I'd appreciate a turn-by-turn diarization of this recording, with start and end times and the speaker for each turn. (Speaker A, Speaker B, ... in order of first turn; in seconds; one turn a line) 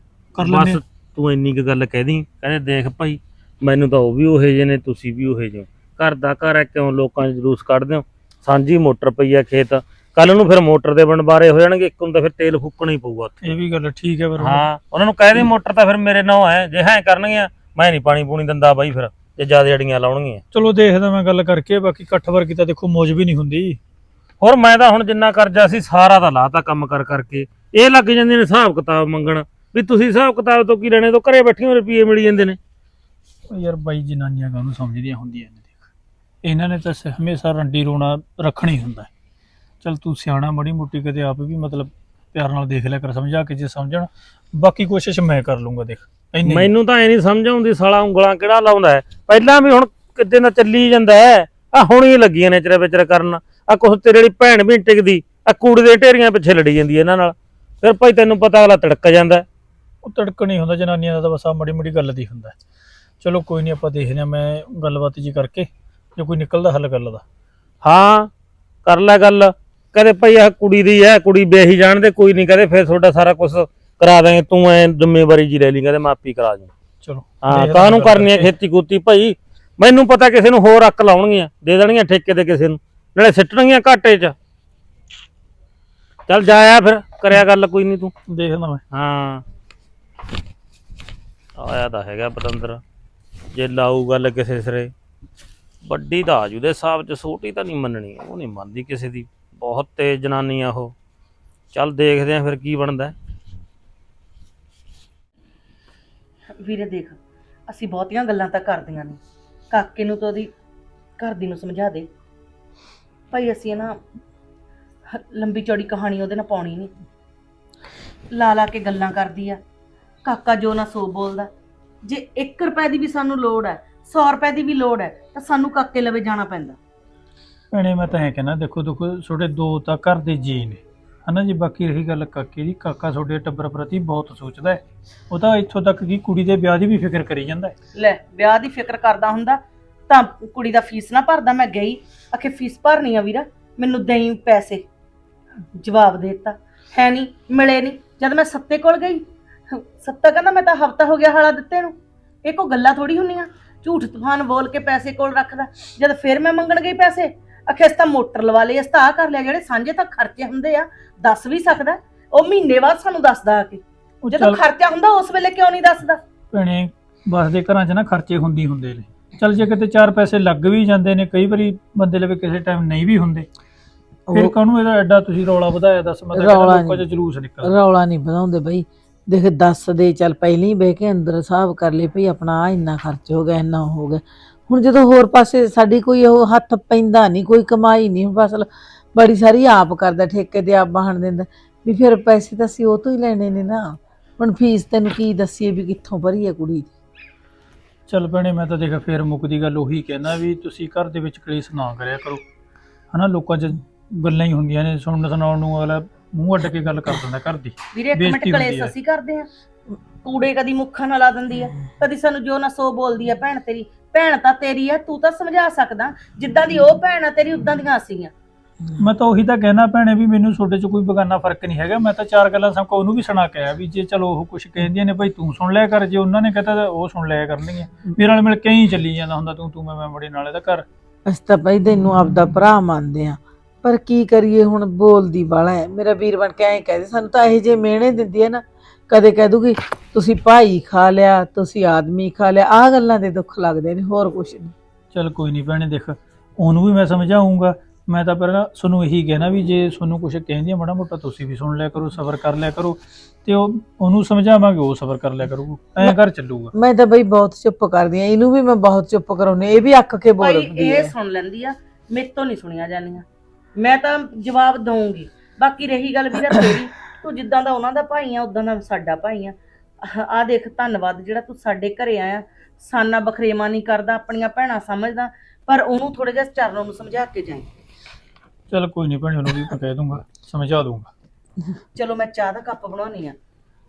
Speaker A: 0.3-0.8
Speaker B: 0.4-13.3
Speaker A: 13.4-14.7
Speaker B: 14.4-20.4
Speaker A: 20.5-23.8
Speaker B: 24.4-32.6
Speaker A: 33.5-35.8
Speaker A: 36.4-39.1
Speaker A: 39.8-46.7
Speaker B: 46.4-59.4
Speaker A: 60.0-62.5
Speaker A: 63.2-67.2
Speaker B: 67.8-68.3
Speaker B: 68.8-76.7
Speaker A: 77.0-78.5
Speaker B: 77.4-84.3
Speaker B: 86.3-88.1
Speaker A: 88.3-88.8
Speaker B: 88.9-89.4
Speaker B: 91.6-92.8
Speaker B: 93.5-94.9
Speaker B: 95.8-100.9
Speaker B: 101.7-103.1
Speaker C: 106.6-110.5
Speaker C: 111.2-112.1
Speaker C: 113.3-114.0
Speaker C: 115.1-116.9
Speaker C: 118.3-119.6
Speaker C: 120.2-121.5
Speaker C: 122.0-126.8
Speaker A: 127.7-137.7
Speaker C: 137.9-144.8
Speaker C: 145.8-166.2
Speaker A: 164.2-164.6
Speaker A: 166.5-173.5
Speaker D: 174.3-174.5
Speaker A: 174.3-177.8
Speaker D: 176.3-177.1
Speaker D: 177.6-196.9
Speaker A: 198.1-202.4
Speaker A: 203.1-208.9
Speaker C: 207.9-209.5
Speaker C: 210.2-218.3
Speaker A: 219.0-230.8
Speaker D: 231.3-244.7
Speaker A: 245.1-256.7
Speaker D: 256.8-261.1
Speaker C: 260.4-277.7
Speaker A: 278.7-281.1
Speaker C: 281.9-283.4